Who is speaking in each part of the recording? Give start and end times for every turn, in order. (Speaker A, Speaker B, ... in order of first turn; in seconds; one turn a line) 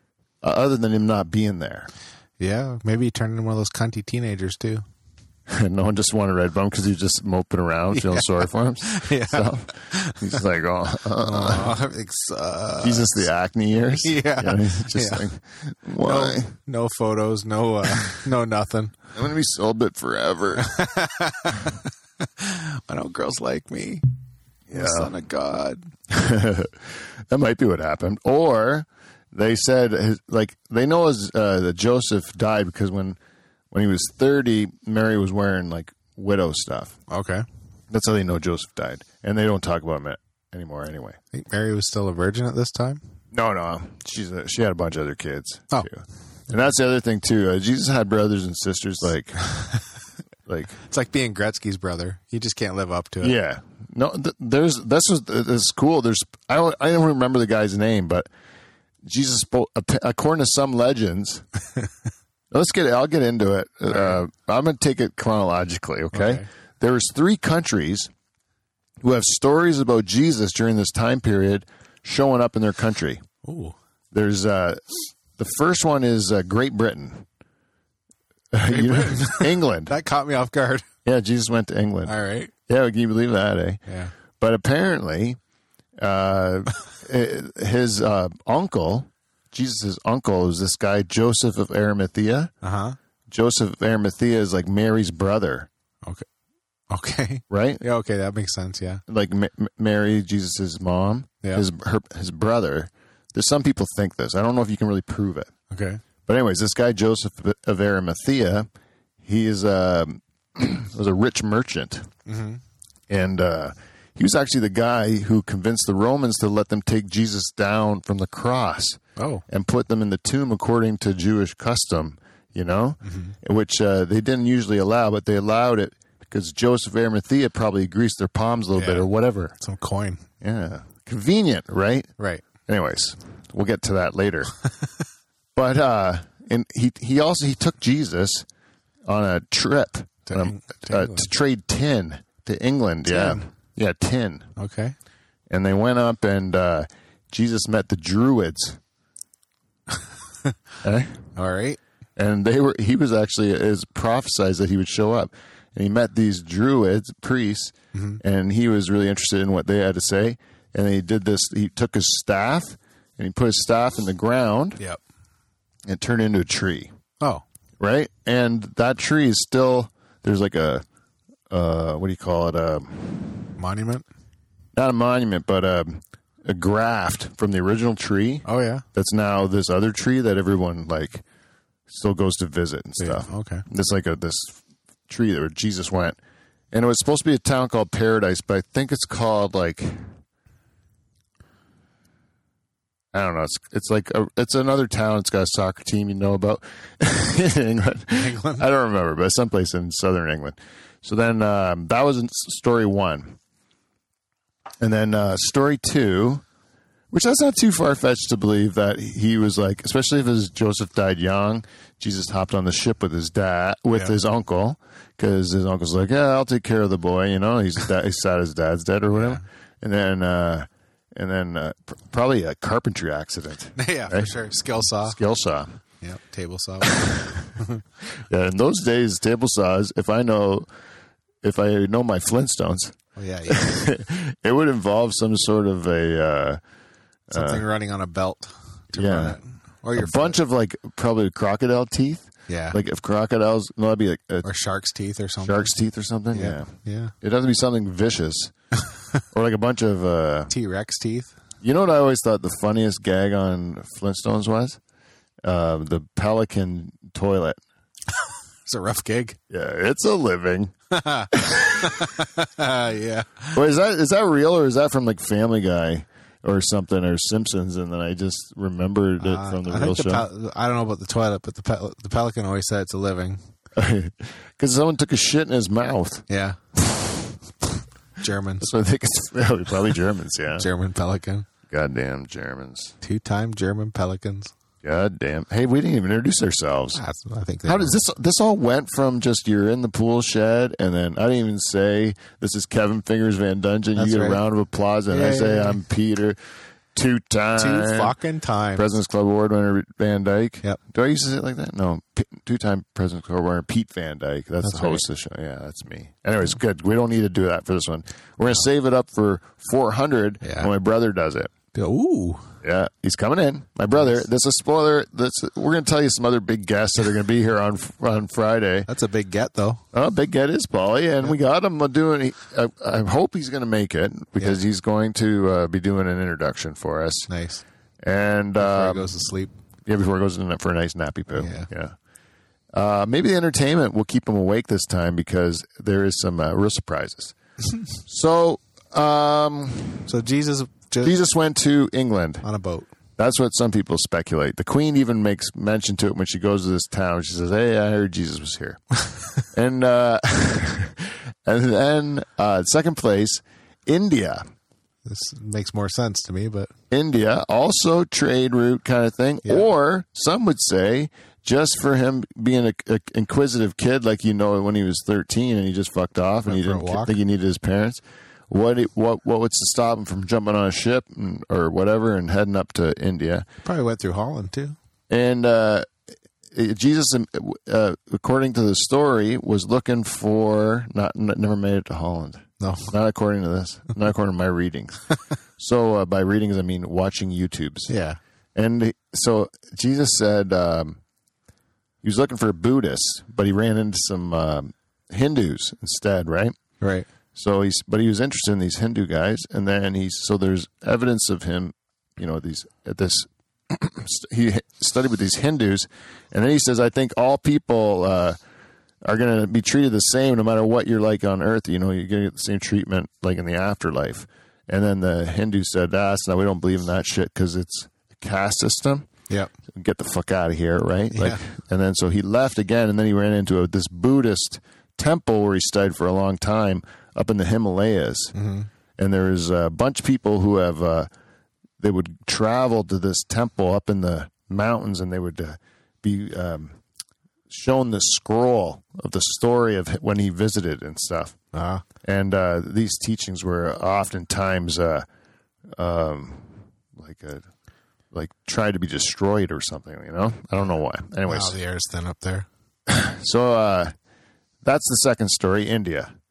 Speaker A: 0.4-1.9
Speaker B: 2.4-4.8
Speaker A: 5.5-11.8
Speaker B: 7.9-10.4
Speaker B: 11.2-13.3
Speaker A: 12.8-16.6
Speaker B: 13.9-15.3
Speaker B: 16.0-18.9
Speaker A: 19.1-20.8
Speaker B: 20.6-24.1
Speaker A: 24.7-25.1
Speaker B: 24.7-25.9
Speaker A: 26.1-33.2
Speaker A: 33.7-37.0
Speaker B: 37.1-37.5
Speaker A: 37.9-41.2
Speaker B: 41.3-43.0
Speaker A: 43.3-49.7
Speaker A: 50.5-50.8
Speaker B: 50.8-53.4
Speaker A: 53.2-58.3
Speaker A: 59.0-61.5
Speaker A: 62.5-68.1
Speaker B: 66.1-66.5
Speaker A: 69.0-73.2
Speaker B: 73.4-73.8
Speaker A: 74.1-77.2
Speaker A: 78.5-80.0
Speaker B: 78.7-80.9
Speaker A: 81.0-83.8
Speaker B: 82.1-82.5
Speaker B: 83.9-84.1
Speaker A: 84.4-85.4
Speaker A: 86.0-92.5
Speaker B: 92.6-93.0
Speaker A: 93.3-95.7
Speaker B: 96.9-99.0
Speaker A: 97.5-97.8
Speaker A: 99.1-105.5
Speaker B: 105.7-106.0
Speaker A: 106.3-108.7
Speaker A: 109.2-112.1
Speaker B: 112.3-112.6
Speaker A: 113.1-129.6
Speaker B: 119.2-119.4
Speaker B: 123.0-123.3
Speaker B: 128.8-130.2
Speaker A: 130.4-132.1
Speaker B: 132.2-132.4
Speaker A: 132.7-134.6
Speaker A: 135.6-138.5
Speaker A: 139.1-144.5
Speaker B: 140.3-141.3
Speaker B: 143.1-143.4
Speaker B: 144.6-144.9
Speaker A: 145.5-148.8
Speaker B: 150.0-150.6
Speaker A: 150.8-151.2
Speaker B: 151.4-151.8
Speaker A: 152.2-164.8
Speaker B: 157.9-158.2
Speaker A: 165.9-166.9
Speaker A: 167.8-170.8
Speaker A: 171.5-173.5
Speaker B: 173.6-174.1
Speaker A: 174.8-181.2
Speaker B: 178.4-178.8
Speaker A: 181.9-186.2
Speaker B: 183.0-183.7
Speaker A: 186.7-190.1
Speaker A: 193.1-203.4
Speaker B: 198.1-198.7
Speaker A: 204.8-206.4
Speaker A: 207.1-224.3
Speaker B: 219.1-219.4
Speaker B: 223.8-225.2
Speaker A: 225.1-225.8
Speaker B: 226.0-227.8
Speaker A: 226.8-227.5
Speaker A: 228.1-230.7
Speaker A: 231.4-236.6
Speaker B: 233.2-233.8
Speaker B: 237.3-240.4
Speaker A: 237.3-237.6
Speaker A: 238.9-239.4
Speaker A: 239.9-244.5
Speaker B: 242.5-242.8
Speaker B: 244.4-245.8
Speaker A: 245.4-248.5
Speaker B: 246.3-247.1
Speaker A: 249.3-250.5
Speaker B: 250.5-251.3
Speaker A: 251.6-254.8
Speaker A: 255.4-257.6
Speaker B: 258.1-259.4
Speaker A: 259.5-260.8
Speaker B: 260.9-263.6
Speaker A: 261.3-262.1
Speaker A: 263.5-270.3
Speaker B: 269.2-273.4
Speaker A: 273.8-276.3
Speaker B: 276.3-276.6
Speaker A: 276.9-277.2
Speaker B: 278.2-278.7
Speaker A: 278.6-280.7
Speaker B: 280.6-281.5
Speaker A: 281.7-282.9
Speaker B: 283.0-284.5
Speaker A: 284.8-287.0
Speaker B: 286.9-288.0
Speaker A: 287.6-296.4
Speaker B: 294.0-294.4
Speaker B: 295.1-295.8
Speaker A: 296.9-298.1
Speaker B: 297.6-298.9
Speaker A: 298.8-311.5
Speaker B: 304.6-305.1
Speaker B: 310.4-310.7
Speaker B: 311.7-312.5
Speaker A: 312.6-318.9
Speaker B: 318.9-319.8
Speaker A: 319.9-327.3
Speaker B: 327.3-327.6
Speaker A: 328.0-329.1
Speaker B: 328.6-329.5
Speaker A: 329.9-331.9
Speaker B: 331.4-331.7
Speaker A: 332.7-337.4
Speaker A: 338.0-340.1
Speaker B: 340.1-341.2
Speaker A: 341.0-342.4
Speaker B: 342.4-342.9
Speaker A: 343.2-348.8
Speaker A: 349.4-354.4
Speaker B: 355.1-356.7
Speaker A: 356.9-373.5
Speaker B: 366.4-367.2
Speaker B: 373.6-374.8
Speaker A: 375.1-375.9
Speaker A: 376.5-385.1
Speaker B: 382.6-382.9
Speaker A: 385.6-387.9
Speaker B: 387.9-388.2
Speaker A: 388.6-391.0
Speaker A: 392.0-396.6
Speaker B: 396.8-397.1
Speaker A: 397.3-408.4
Speaker A: 409.0-419.1
Speaker A: 419.7-428.3
Speaker B: 421.1-421.4
Speaker B: 428.3-428.7
Speaker A: 429.0-431.1
Speaker A: 431.8-436.8
Speaker A: 437.5-441.4
Speaker B: 441.5-441.9
Speaker A: 442.0-445.1
Speaker A: 445.8-447.5
Speaker A: 448.1-451.6
Speaker B: 451.3-452.5
Speaker A: 452.9-453.9
Speaker A: 454.6-456.1